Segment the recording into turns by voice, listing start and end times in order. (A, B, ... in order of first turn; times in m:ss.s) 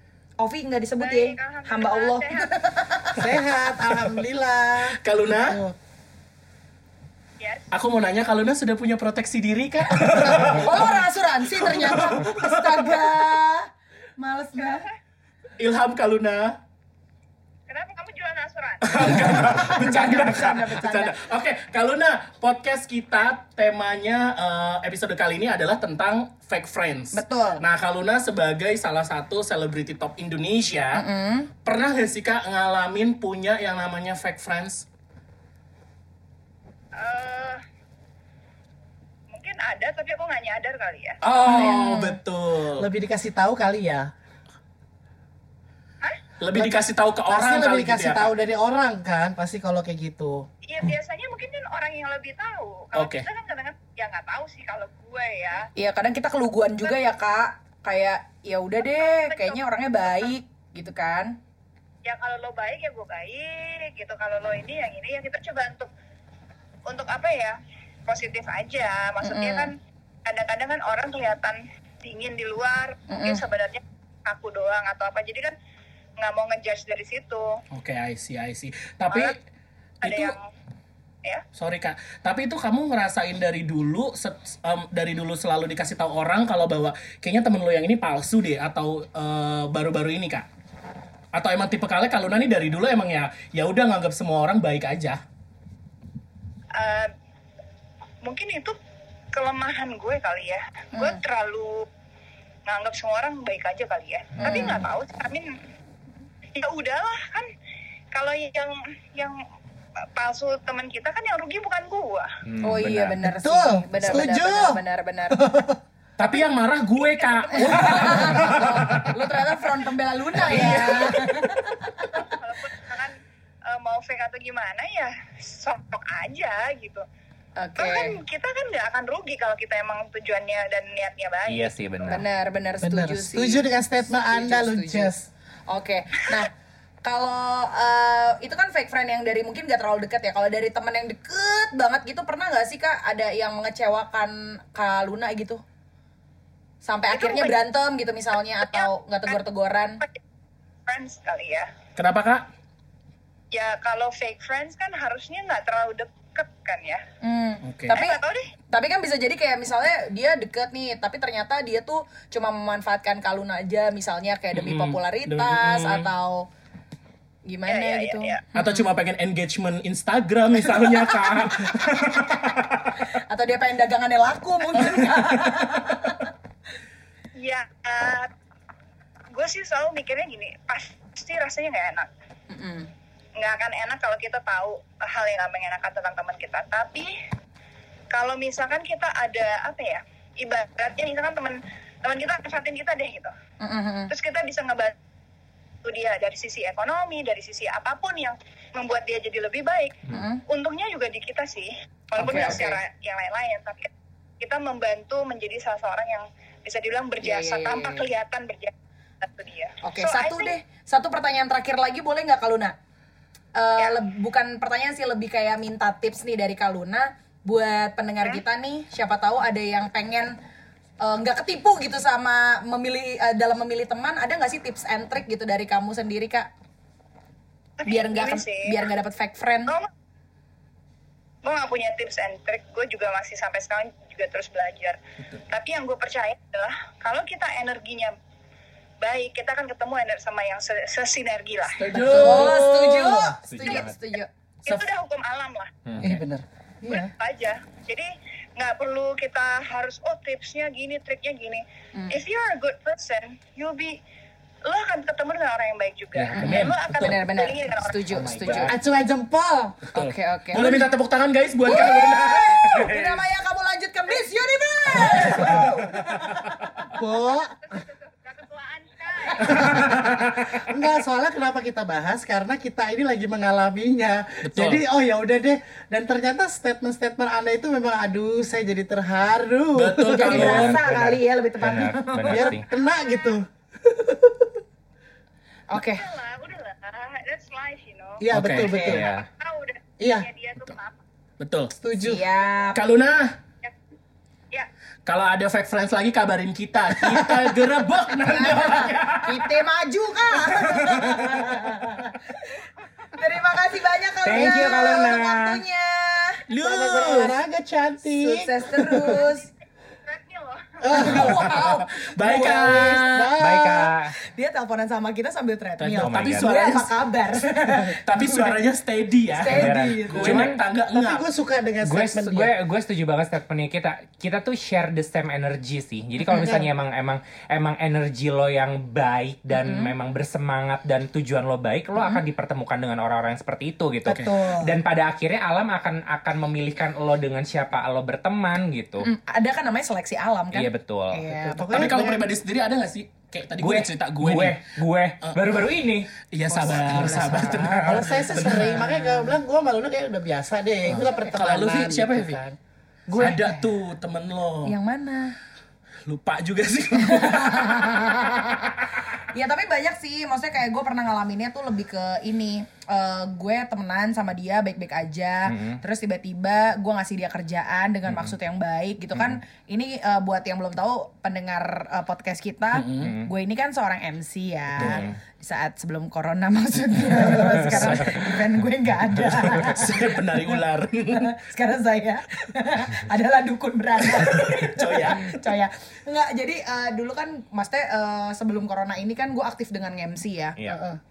0:00.4-0:03.3 A
0:01.0-0:02.5 B
0:03.2-0:05.8 C
0:05.0-0:05.6 D
0:07.4-0:07.7 B
0:07.7-0:11.0 D
0:10.5-0:14.9 A
0:11.5-0:13.1 D
0:14.6-0:14.9 B
0:15.6-0:16.6 D
0:17.7-0:19.2 B
0:18.8-0:31.0 D
0:19.4-0:21.3 A
0:27.1-0:27.6 A
0:31.0-0:31.5 A
0:31.6-0:34.9 D
0:37.0-0:37.6 B
0:39.3-0:41.2 B
0:41.2-0:42.9 D
0:41.5-0:42.2 A
0:42.8-0:44.1 C
0:46.4-0:48.2 D
0:46.5-0:50.5 C
0:50.6-0:55.7 B
0:52.9-0:53.3 D
0:55.8-1:01.4 A
0:58.8-1:00.3 B
1:02.0-1:05.9 B
1:06.9-1:09.7 B
1:09.2-1:09.7 A
1:10.3-1:15.6 B
1:13.1-1:13.4 A
1:16.2-1:17.5 B
1:17.7-1:19.4 D
1:20.0-1:20.4 D
1:20.0-1:20.4 B
1:21.6-1:30.5 D
1:31.3-1:35.2 D
1:36.8-1:37.1 B
1:38.2-1:38.8 B
1:39.3-1:41.9 B
1:41.0-1:41.2 A
1:42.7-1:45.5 B
1:44.4-1:44.8 E
1:44.4-1:44.8 A
1:46.6-1:47.5 B
1:48.1-1:49.4 B
1:50.1-1:52.3 B
1:52.5-1:53.2 E
1:52.6-1:55.4 A
1:53.2-1:54.8 C
1:55.3-1:55.8 C
1:56.2-1:59.1 D
1:56.2-1:58.4 B
1:57.6-2:02.1 A
2:00.4-2:01.6 D
2:00.4-2:00.9 E
2:02.0-2:03.2 B
2:03.7-2:07.0 B
2:07.6-2:08.2 A
2:07.8-2:11.7 B
2:11.5-2:12.2 E
2:12.0-2:15.1 A
2:12.8-2:15.3 C
2:15.7-2:16.5 A
2:17.0-2:25.6 A
2:26.8-2:30.0 A
2:27.1-2:27.5 B
2:28.6-2:29.4 B
2:30.9-2:31.7 B
2:32.0-2:32.5 D
2:33.5-2:37.0 B
2:37.2-2:38.2 A
2:37.6-2:38.0 D
2:37.9-2:38.5 B
2:38.7-2:46.5 A
2:44.5-2:46.1 D
2:47.5-2:48.9 A
2:47.7-2:48.4 B
2:48.5-2:53.1 D
2:50.7-2:52.1 A
2:53.1-2:56.3 A
2:54.9-2:55.9 D
2:57.4-2:58.3 B
2:59.3-3:02.1 B
3:02.5-3:02.9 A
3:03.4-3:07.1 B
3:08.1-3:13.3 B
3:13.6-3:14.1 A
3:14.1-3:14.9 B
3:15.8-3:30.5 B
3:20.1-3:20.4 A
3:22.2-3:22.7 A
3:22.2-3:22.8 E
3:27.2-3:28.0 A
3:29.8-3:32.8 A
3:33.6-3:40.4 A
3:41.0-3:46.5 A
3:47.8-3:48.7 B
3:47.9-3:49.7 A
3:51.4-3:55.0 B
3:55.5-3:58.1 B
3:59.0-4:02.2 B
4:01.7-4:03.3 D
4:02.0-4:04.3 A
4:02.2-4:03.3 C
4:03.4-4:04.0 E
4:04.7-4:05.7 B
4:05.9-4:06.2 E
4:06.0-4:07.1 C
4:06.9-4:14.0 B
4:14.7-4:18.3 B
4:16.1-4:17.2 D
4:16.3-4:18.7 A
4:18.1-4:18.8 E
4:18.7-4:19.8 C
4:19.9-4:20.9 A
4:20.0-4:23.2 D
4:21.6-4:26.6 A
4:24.9-4:26.9 D
4:27.0-4:27.8 C
4:27.6-4:29.9 B
4:29.4-4:40.6 C
4:29.6-4:30.4 D
4:34.4-4:34.8 D
4:39.8-4:40.8 D
4:40.1-4:42.5 A
4:40.3-4:42.7 E
4:42.3-4:44.6 C
4:42.7-4:43.4 B
4:45.7-4:46.1 A
4:45.8-4:51.0 B
4:48.2-4:49.1 C
4:48.3-4:48.9 D
4:48.8-4:49.3 E
4:50.0-4:50.3 C
4:51.4-4:51.7 D
4:51.8-4:52.3 C
4:52.0-4:52.8 A
4:52.7-4:53.4 D
4:55.1-4:59.6 D
4:57.1-4:57.6 C
4:58.2-5:06.4 A
5:00.4-5:01.4 D
5:01.2-5:02.1 C
5:04.2-5:05.6 E
5:04.4-5:04.8 C
5:06.5-5:07.3 D
5:06.5-5:09.3 C
5:08.1-5:09.5 A
5:10.0-5:10.8 B
5:10.8-5:11.5 C
5:10.9-5:13.4 A
5:10.9-5:13.0 D
5:12.4-5:13.9 C
5:13.4-5:14.1 E
5:14.1-5:18.6 A
5:15.8-5:21.2 D
5:16.0-5:16.6 E
5:19.3-5:20.5 A
5:19.5-5:20.6 E
5:20.9-5:22.5 C
5:21.8-5:39.1 E
5:26.3-5:26.6 A
5:29.5-5:29.9 A
5:32.0-5:32.2 A
5:39.0-5:42.1 A
5:40.5-5:41.3 E
5:41.3-5:42.2 C
5:41.7-5:44.6 D
5:43.6-5:47.7 E
5:45.2-5:45.6 D
5:46.2-5:48.8 D
5:46.5-5:49.3 A
5:47.5-5:52.6 C
5:50.9-5:51.3 A
5:50.9-5:52.4 D
5:53.1-5:53.6 A
5:53.2-5:54.8 D
5:54.6-5:55.4 A
5:56.1-5:58.6 D
5:57.0-6:30.6 A
6:05.5-6:05.8 E
6:08.1-6:08.3 E
6:09.1-6:09.4 E
6:12.7-6:13.1 D
6:13.0-6:13.3 E
6:14.8-6:15.2 E
6:14.8-6:15.1 D
6:17.3-6:18.4 D
6:17.7-6:18.0 E
6:19.4-6:21.3 D
6:24.1-6:25.4 D
6:30.7-6:31.0 D